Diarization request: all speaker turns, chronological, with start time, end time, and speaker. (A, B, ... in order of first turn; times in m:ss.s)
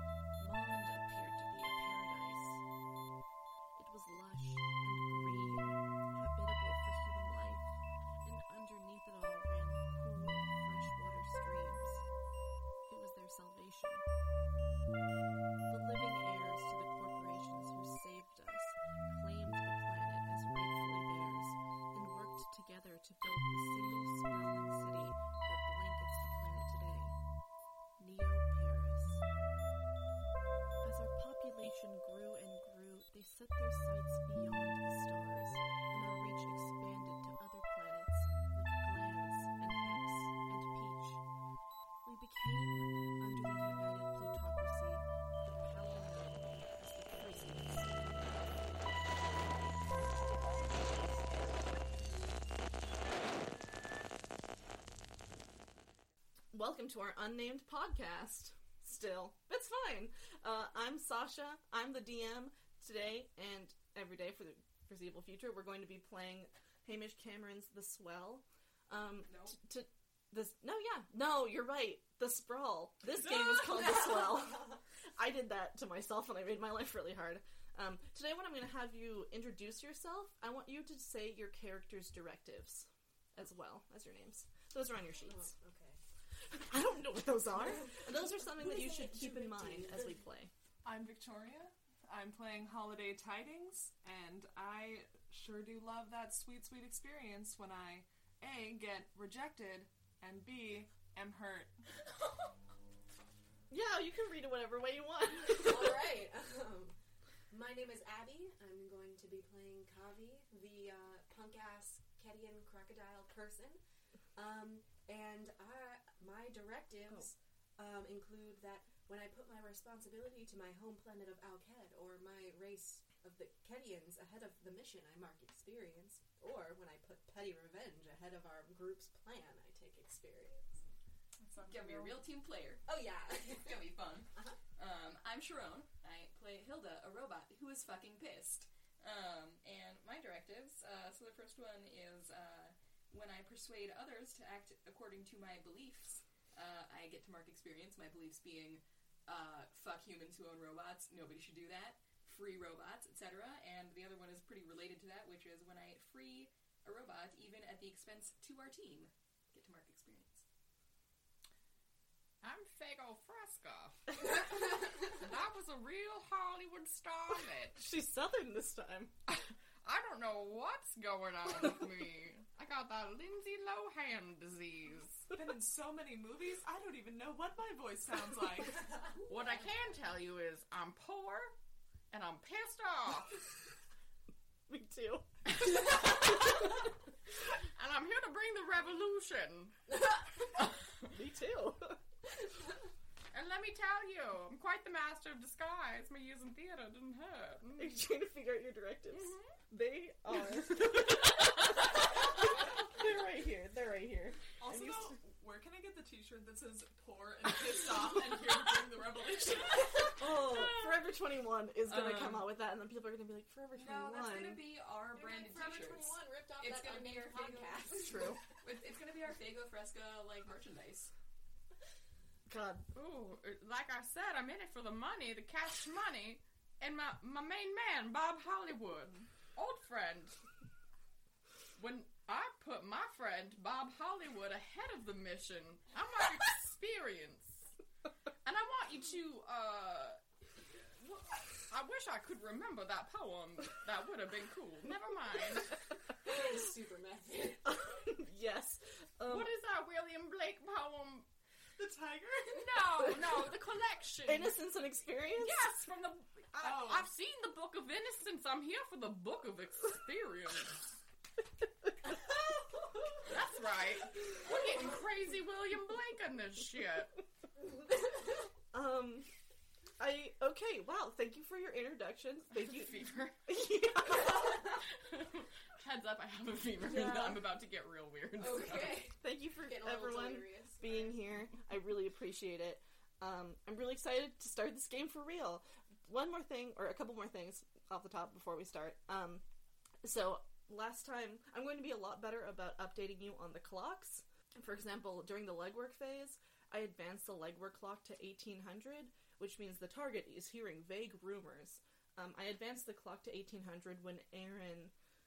0:00.4-0:02.6 A
0:03.8-0:12.1 A
0:12.9-0:14.0 A
0:15.7-0:27.2 A
0:28.0-0:29.2 A
0:30.8-0:41.2 A
0:42.0-0:48.7 A
0:50.0-0:51.3 A
0:56.5-1:25.5 A
1:09.2-1:09.6 B
1:25.2-1:26.0 C
1:26.5-1:30.5 A
1:27.6-1:30.3 C
1:30.8-1:41.7 D
1:43.7-1:46.0 A
1:45.5-1:47.0 C
1:47.5-1:53.8 C
1:54.4-2:10.8 C
2:11.4-2:12.2 E
2:11.7-2:12.9 B
2:12.9-2:14.6 C
2:13.4-2:40.4 B
2:42.4-2:47.8 E
2:47.7-2:49.2 A
2:49.8-2:55.3 E
2:55.3-2:59.0 D
2:59.2-3:01.5 E
2:59.4-2:59.8 B
3:02.1-3:03.4 E
3:04.7-3:05.3 A
3:05.7-3:06.4 E
3:07.8-3:11.1 E
3:11.1-3:12.0 A
3:13.3-3:18.0 E
3:17.8-3:25.2 A
3:19.1-3:19.4 E
3:24.6-3:30.2 D
3:30.1-3:34.6 A
3:33.8-3:37.9 B
3:35.1-3:38.4 C
3:38.0-3:38.4 A
3:38.6-3:41.1 B
3:42.5-3:42.9 A
3:42.9-3:50.4 E
3:51.8-3:57.7 E
3:58.4-4:00.2 E
4:00.9-4:05.8 E
4:06.2-4:07.6 C
4:07.6-4:09.5 A
4:09.3-4:11.3 E
4:11.8-4:12.8 D
4:12.5-4:14.6 E
4:14.2-4:15.8 A
4:15.2-4:20.8 E
4:16.6-4:17.1 D
4:23.2-4:27.2 E
4:28.7-4:29.3 A
4:30.0-4:34.6 A
4:32.5-4:39.1 E
4:36.8-4:37.4 A
4:38.4-4:41.2 C
4:39.2-4:49.4 A
4:50.0-5:04.9 A